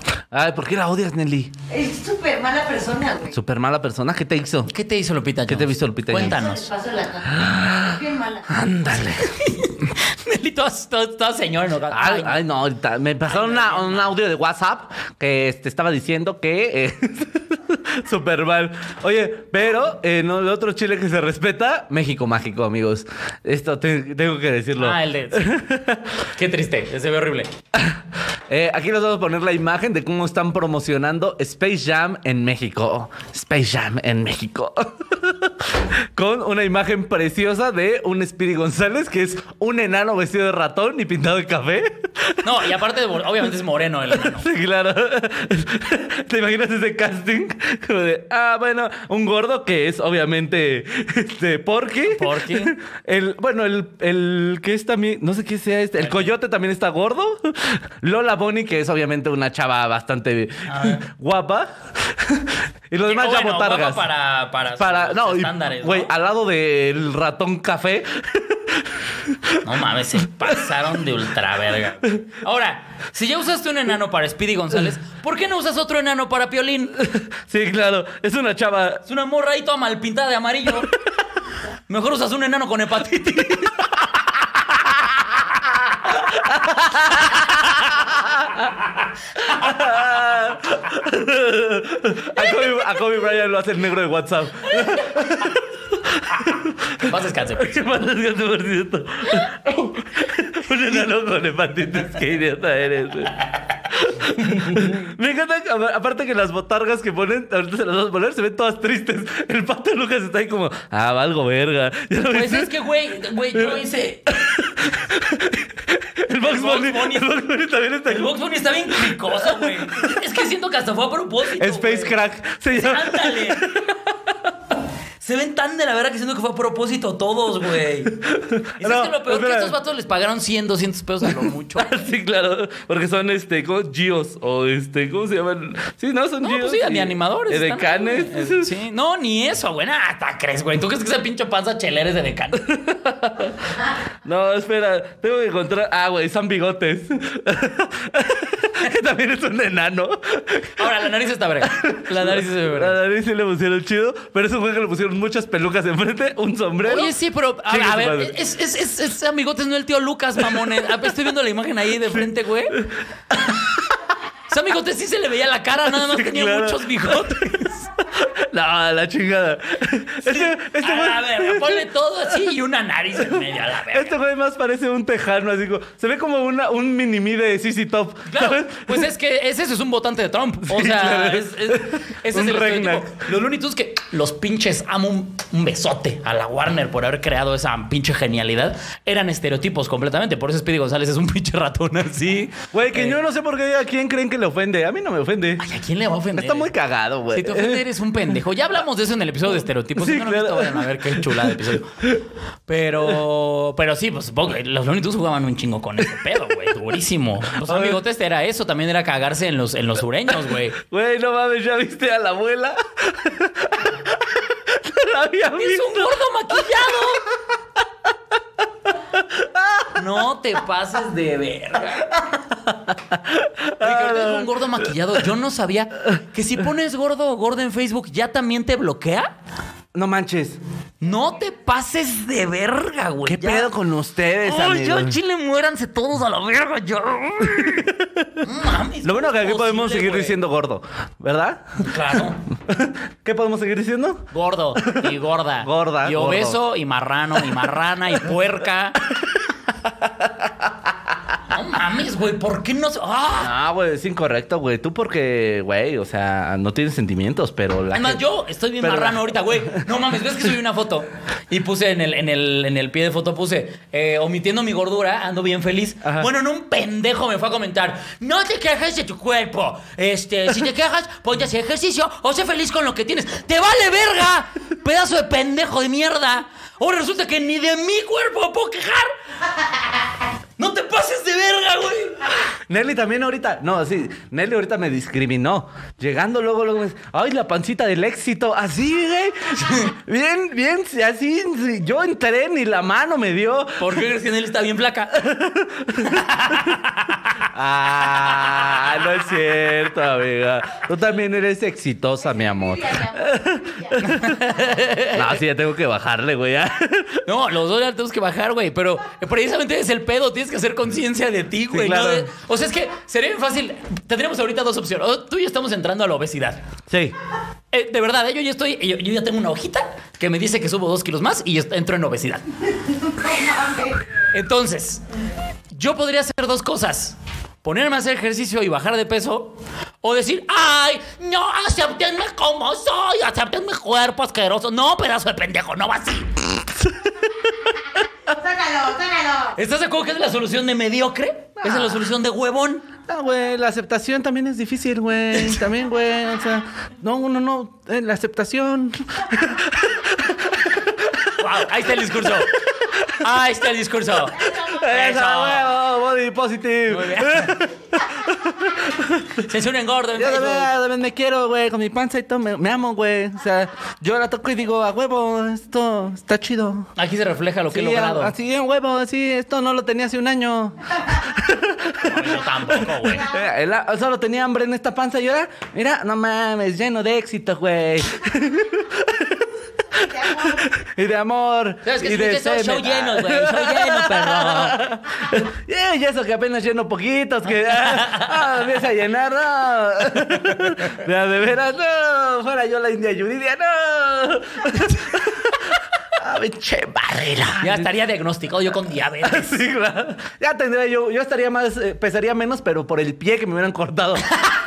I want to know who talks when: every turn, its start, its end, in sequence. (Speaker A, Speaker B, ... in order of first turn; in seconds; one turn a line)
Speaker A: 0.3-1.5
Speaker B: 1.7-3.4
Speaker A: 3.3-4.7
Speaker C: 4.7-6.7
Speaker A: 5.5-6.4
Speaker B: 6.1-8.5
Speaker A: 7.3-9.4
Speaker C: 9.3-12.4
Speaker A: 11.9-26.2
Speaker C: 13.3-14.2
Speaker C: 24.8-25.6
Speaker C: 26.3-27.5
Speaker A: 27.7-42.6
Speaker C: 42.4-44.5
Speaker A: 44.1-64.1
Speaker C: 52.1-52.7
Speaker C: 56.0-56.3
Speaker C: 60.7-61.0
Speaker C: 63.0-66.1
Speaker A: 64.8-69.6
Speaker C: 69.6-77.0
Speaker A: 77.0-79.0
Speaker C: 79.0-80.9
Speaker C: 81.9-84.1
Speaker A: 86.3-88.6
Speaker C: 89.4-90.0
Speaker A: 89.5-112.7
Speaker C: 97.0-97.8
Speaker C: 112.3-114.4
Speaker A: 113.5-118.4
Speaker C: 116.3-117.3
Speaker C: 118.1-122.2
Speaker A: 119.0-120.2
Speaker A: 121.6-124.1
Speaker C: 122.7-123.7
Speaker C: 125.2-128.2
Speaker A: 128.1-129.8
Speaker C: 128.8-132.0
Speaker A: 131.4-138.7
Speaker C: 136.4-142.7
Speaker A: 142.6-150.9
Speaker C: 150.8-153.0
Speaker A: 151.6-157.2
Speaker C: 156.8-162.8
Speaker A: 157.7-158.4
Speaker A: 162.1-163.8
Speaker C: 164.5-167.9
Speaker A: 165.9-167.4
Speaker A: 168.0-171.9
Speaker C: 170.2-174.2
Speaker A: 173.3-179.1
Speaker C: 178.3-193.2
Speaker A: 180.7-183.3
Speaker A: 192.7-195.7
Speaker C: 195.6-196.7
Speaker A: 196.3-197.9
Speaker C: 197.3-202.1
Speaker A: 199.9-202.2
Speaker C: 202.7-210.8
Speaker A: 207.5-208.0
Speaker A: 210.7-216.2
Speaker C: 215.6-217.3
Speaker A: 219.1-219.9
Speaker C: 219.9-222.2
Speaker A: 222.7-224.5
Speaker C: 223.8-229.3
Speaker A: 229.9-230.6
Speaker C: 231.0-233.7
Speaker A: 233.3-235.2
Speaker C: 234.4-240.4
Speaker A: 237.4-238.3
Speaker A: 239.0-246.6
Speaker C: 241.8-242.4
Speaker C: 244.3-249.0
Speaker A: 250.0-250.7
Speaker C: 251.5-253.5
Speaker A: 253.4-258.2
Speaker C: 257.9-279.1
Speaker A: 258.8-259.9
Speaker A: 266.0-266.3
Speaker C: 280.6-282.3
Speaker A: 282.7-294.0
Speaker C: 289.6-289.9
Speaker C: 293.8-295.2
Speaker A: 295.1-296.2
Speaker C: 296.0-297.4
Speaker A: 297.5-304.4
Speaker B: 302.6-303.9
Speaker C: 304.0-305.4
Speaker A: 305.1-307.3
Speaker C: 307.2-316.6
Speaker A: 311.7-312.3
Speaker A: 316.9-317.1
Speaker C: 317.7-322.5
Speaker B: 323.1-324.0
Speaker C: 324.3-325.0
Speaker C: 325.7-336.4
Speaker B: 338.3-339.5
Speaker C: 339.6-342.9
Speaker A: 341.6-342.0
Speaker A: 343.1-350.9
Speaker C: 351.3-355.7
Speaker A: 354.6-359.4
Speaker C: 356.9-357.6
Speaker C: 359.4-360.7
Speaker A: 360.1-366.9
Speaker C: 367.0-368.3
Speaker A: 367.7-397.9
Speaker C: 371.9-373.3
Speaker B: 380.0-380.6
Speaker C: 381.9-384.8
Speaker C: 387.6-388.6
Speaker C: 397.6-399.6
Speaker A: 399.2-404.3